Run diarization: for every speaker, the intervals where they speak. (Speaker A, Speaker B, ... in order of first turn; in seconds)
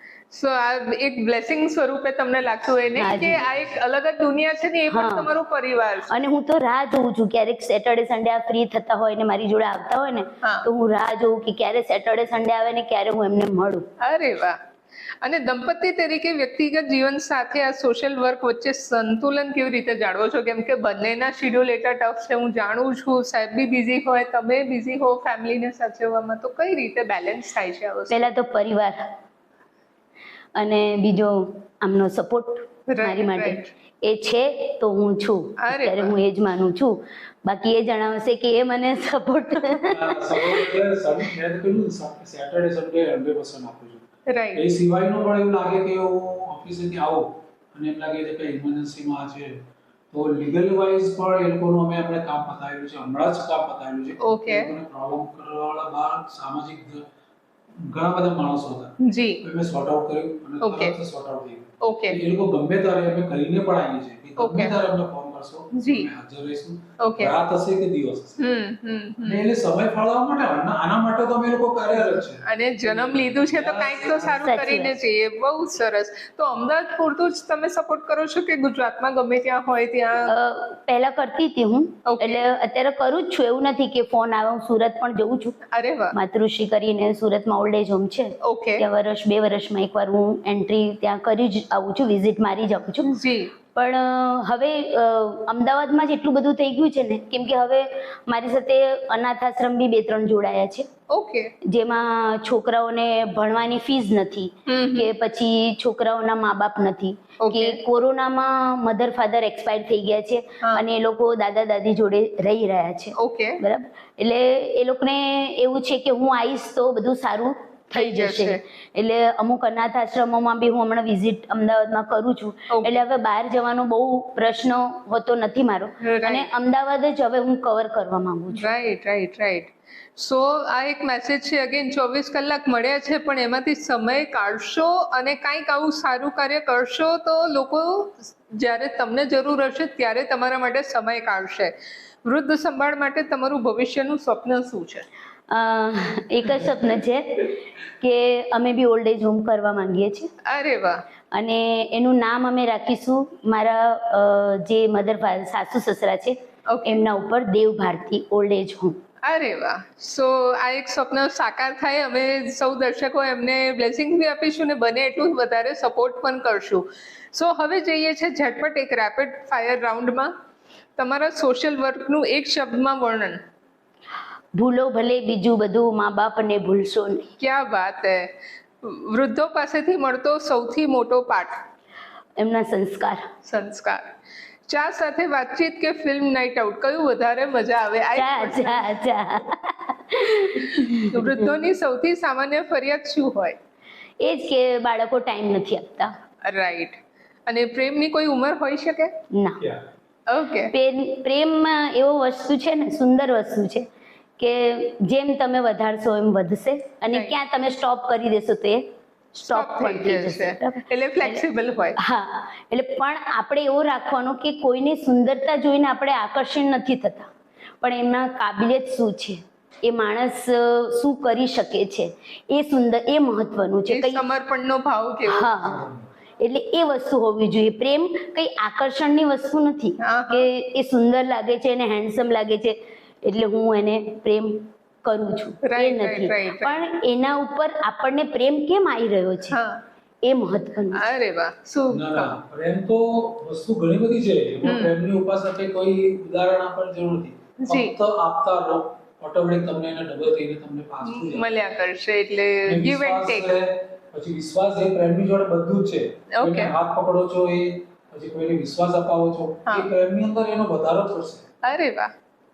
Speaker A: 0.3-6.1, 14.0-14.6, 15.2-28.3, 32.9-33.7, 35.6-36.1, 44.3-44.6, 54.2-54.7, 59.0-59.4, 60.6-61.0, 61.8-62.2, 64.4-64.8, 65.7-66.1, 67.0-67.3, 68.4-69.5, 72.0-80.3, 82.0-82.4, 85.7-86.1, 88.4-88.8, 93.1-93.5, 101.1-101.5, 104.7-105.1, 107.4-107.8, 113.2-113.6, 117.9-118.6, 122.7-123.0, 126.0-126.5, 128.5-141.7, 142.2-145.0, 150.4-151.0, 156.7-157.0, 159.2-170.3, 170.9-173.4, 177.4-178.3, 178.8-181.6, 183.4-184.1, 184.7-188.8, 191.1-193.6, 196.4-199.1, 200.3-200.7, 209.3-212.0, 223.9-225.5, 230.0-230.5, 235.6-236.8, 239.5-239.8, 240.9-242.3, 244.6-244.9, 247.6-247.9, 251.0-253.6, 256.3-256.7, 261.6-262.1
Speaker B: 3.0-3.5, 4.9-5.3, 6.1-13.8, 28.1-29.0, 30.6-40.6, 74.3-75.0, 80.2-85.6, 86.1-93.1, 93.7-100.8, 101.7-128.7, 145.5-150.3, 151.3-159.0, 174.5-177.3, 182.4-183.3, 188.1-191.6, 194.2-196.1, 199.3-199.6, 200.7-203.8, 204.4-208.8, 209.4-211.4, 212.0-217.3, 217.8-224.2, 225.3-225.9, 226.4-239.6, 240.2-241.1
Speaker C: 39.9-44.0, 44.5-57.0, 57.9-68.5, 69.2-74.4, 225.6-226.0, 241.9-251.5, 252.6-261.4